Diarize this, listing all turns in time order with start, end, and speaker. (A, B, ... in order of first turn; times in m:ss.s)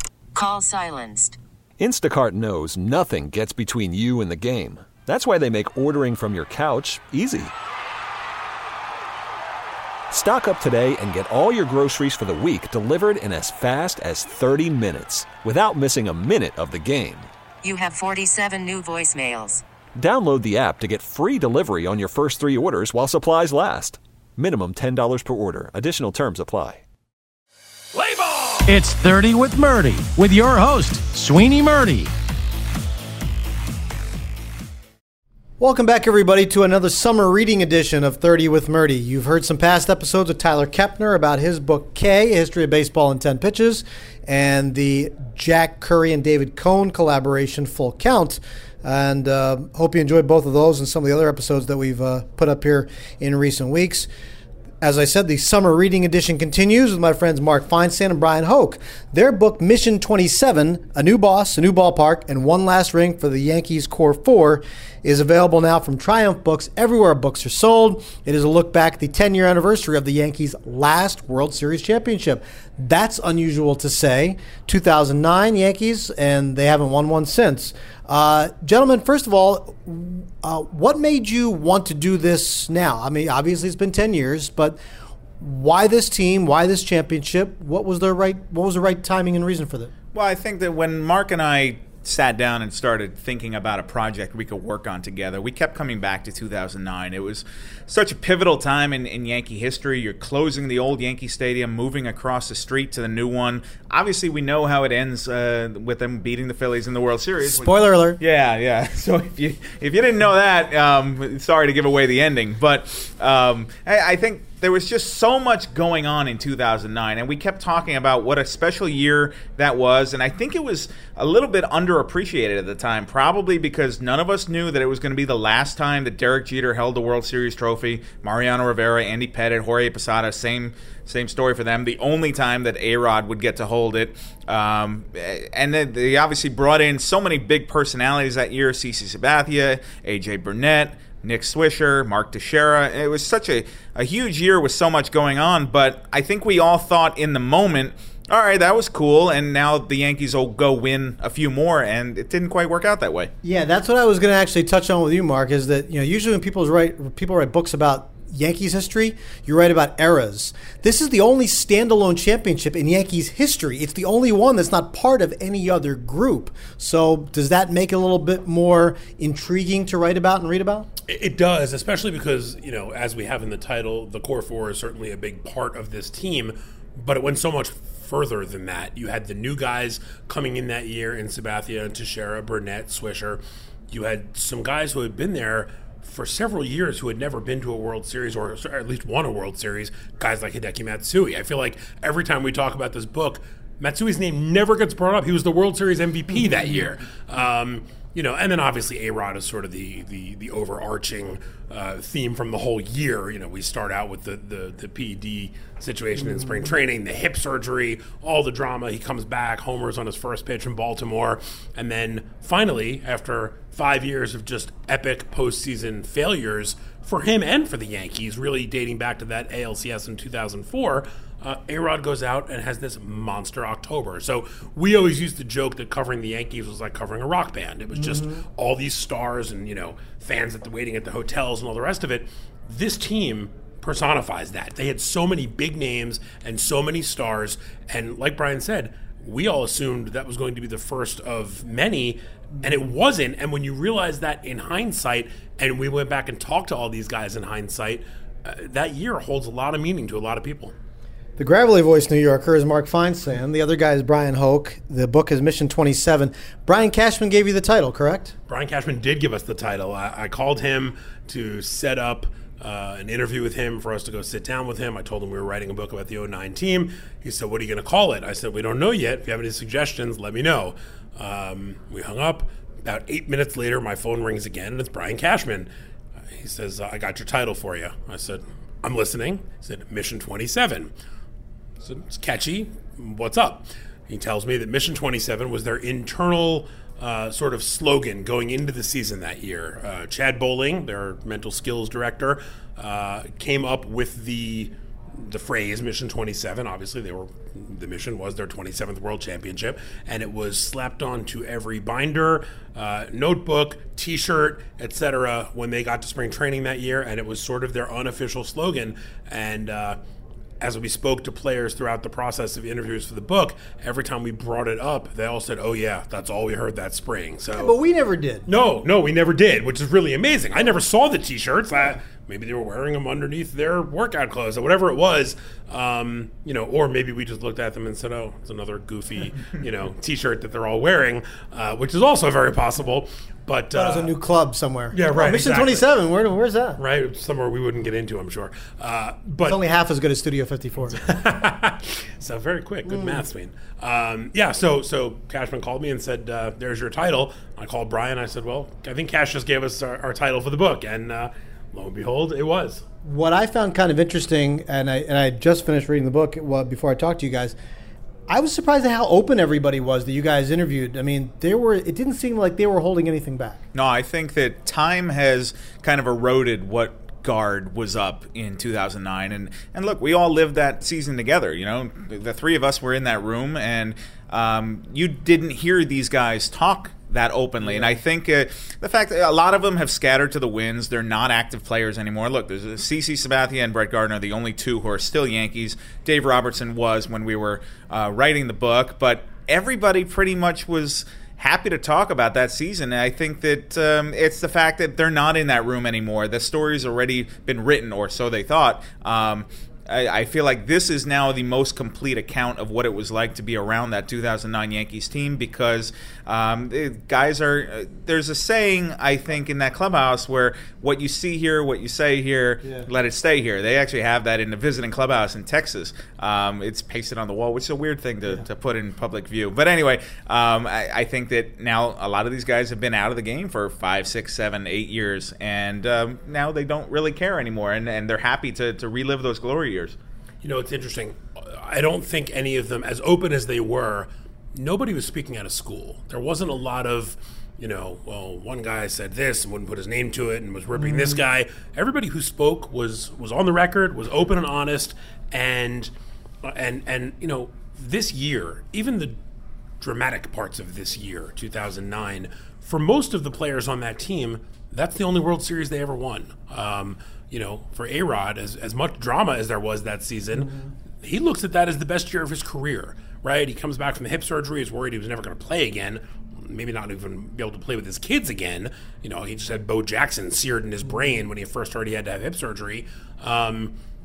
0:00.3-0:01.4 A
0:01.8-0:07.5 B
0:10.1-0:17.3 B
0:17.6-0:19.6 A
0:20.0-0:26.8 B
0:28.6-0:32.1 C
0:35.6-0:54.1 D
0:54.8-1:24.8 D
1:25.4-1:29.9 D
1:30.1-2:33.3 E
1:47.4-1:48.2 D
2:33.4-2:50.9 D
2:51.1-4:10.7 F
3:48.0-3:48.3 D
4:11.4-4:18.3 D
4:18.5-4:35.7 F
4:36.4-4:40.9 F
4:41.8-5:10.0 F
5:10.6-5:17.7 F
5:17.5-5:18.5 D
5:18.5-5:34.1 F
5:33.7-5:36.8 D
5:34.9-5:35.8 F
5:36.8-5:39.6 F
5:39.4-5:41.0 D
5:40.9-5:52.8 F
5:42.8-5:43.2 D
5:53.0-5:57.5 D
5:58.3-6:03.6 D
6:03.7-7:10.0 E
7:10.4-7:25.9 F
7:26.4-7:29.1 F
7:29.8-7:53.8 F